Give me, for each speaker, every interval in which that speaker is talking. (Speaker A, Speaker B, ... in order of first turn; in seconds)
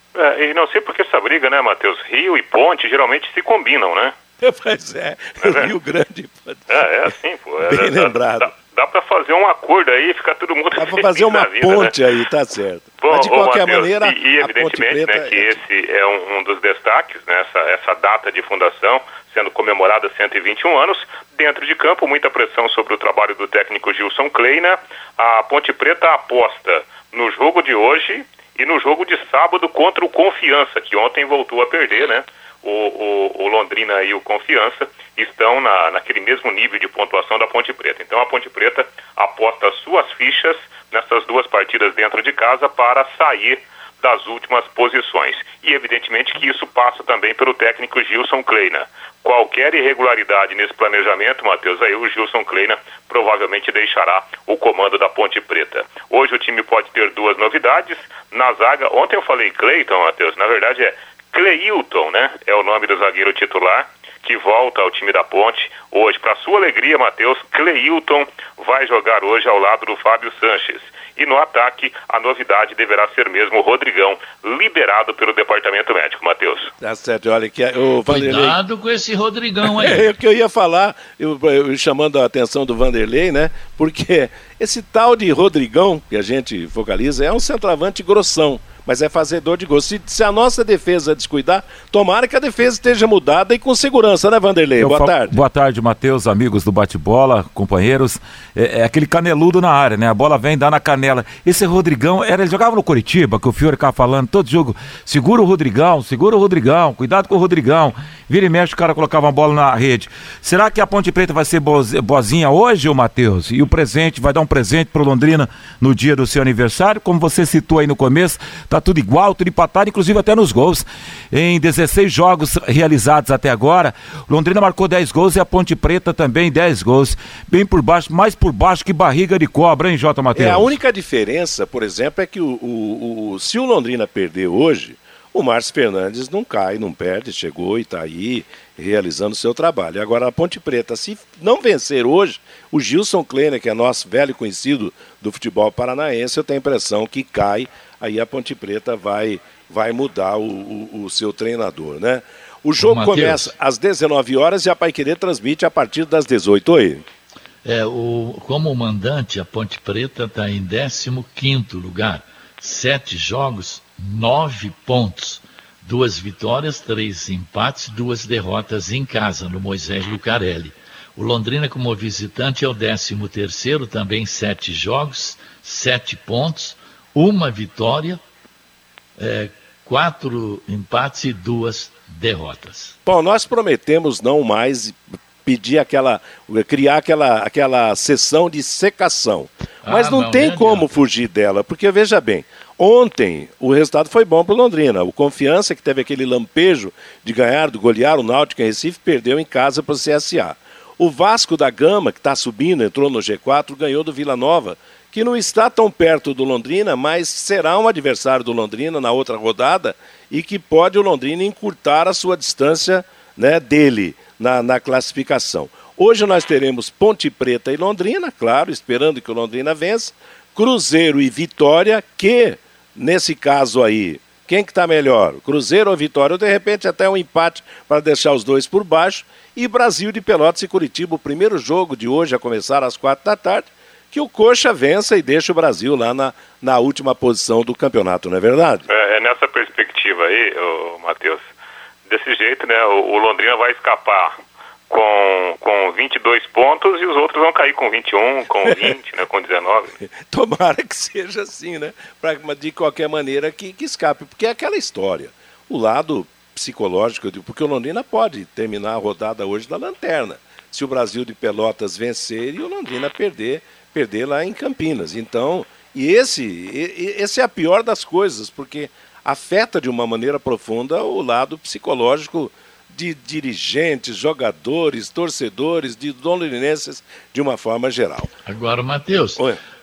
Speaker A: 0.1-4.2, 5.4-5.7, 6.7-11.9, 13.0-76.7, 238.9-241.5, 242.1-244.4, 244.9-249.9
Speaker B: 4.4-6.7, 7.7-8.5, 10.8-15.5, 76.8-78.6, 79.6-95.3, 130.3-157.0, 183.1-238.9, 250.3-278.3
Speaker C: 78.1-80.0, 152.8-153.5, 157.6-178.2, 179.2-183.0, 189.8-191.0, 278.4-279.4
Speaker D: 94.8-130.7